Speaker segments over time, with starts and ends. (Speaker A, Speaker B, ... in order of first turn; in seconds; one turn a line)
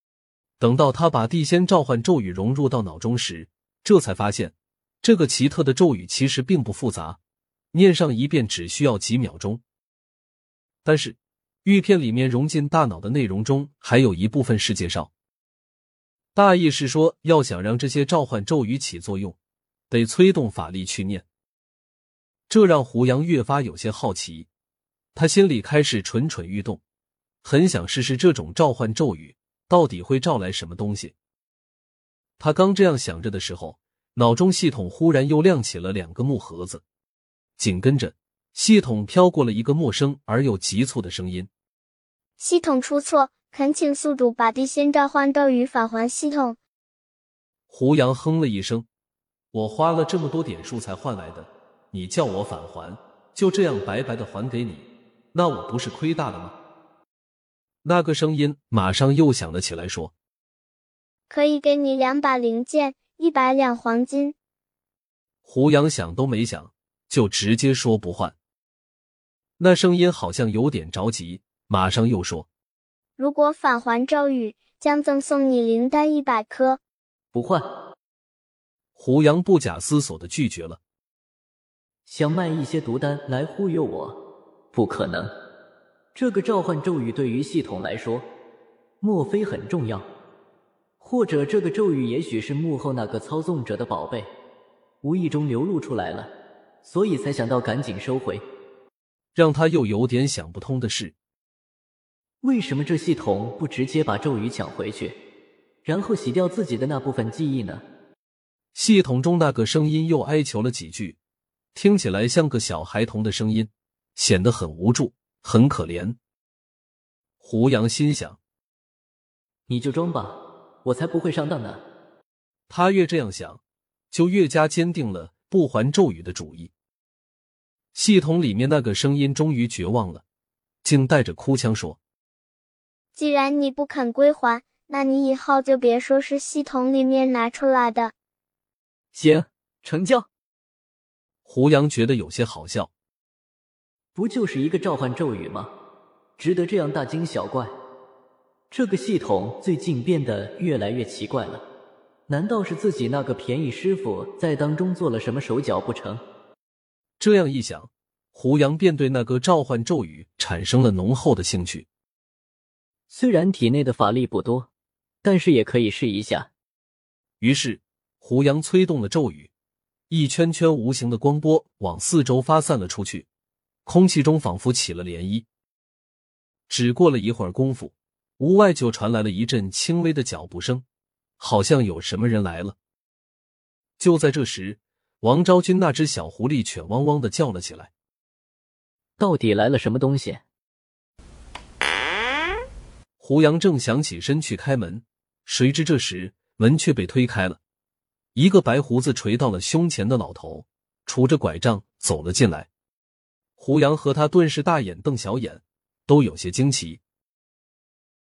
Speaker A: 0.6-7.2
Speaker A: 7.7-9.6
Speaker A: 10.8-15.1
Speaker A: 16.3-19.4
Speaker A: 19.9-21.2
Speaker A: 22.5-24.5
Speaker A: 25.1-26.8
Speaker A: 27.4-31.1
Speaker A: 32.4-36.8
Speaker A: 37.6-41.5
Speaker B: 42.4-46.6
Speaker A: 47.7-48.9
Speaker A: 49.5-56.5
Speaker A: 57.8-60.1
Speaker B: 61.3-64.3
Speaker A: 65.4-68.3
Speaker A: 69.6-72.5
Speaker B: 73.2-76.8
Speaker C: 77.3-77.7
Speaker A: 78.9-80.8
Speaker C: 82.0-84.2
Speaker C: 84.7-85.3
Speaker C: 86.1-88.3
Speaker C: 89.0-90.0
Speaker C: 91.0-94.3
Speaker C: 95.0-96.3
Speaker C: 96.8-98.4
Speaker A: 99.3-101.1
Speaker C: 102.4-105.2
Speaker C: 105.8-107.8
Speaker A: 108.7-111.2
Speaker A: 111.7-116.2
Speaker A: 117.4-118.4
Speaker C: 119.7-121.8
Speaker A: 122.7-123.6
Speaker A: 124.1-126.7
Speaker A: 127.9-130.2
Speaker A: 130.8-132.0
Speaker B: 133.1-138.1
Speaker C: 139.1-140.3
Speaker A: 141.4-142.9
Speaker C: 144.1-145.7
Speaker C: 146.4-147.7
Speaker C: 148.7-151.6
Speaker C: 152.3-156.2
Speaker A: 157.2-161.8
Speaker C: 163.1-164.7
Speaker C: 165.2-166.5
Speaker A: 167.4-169.5
Speaker A: 170.1-173.3
Speaker A: 173.8-175.4
Speaker A: 176.7-180.8
Speaker A: 181.4-182.8
Speaker A: 184.0-187.9
Speaker C: 189.2-190.4
Speaker A: 193.2-197.6
Speaker A: 198.3-202.7
Speaker A: 203.6-207.0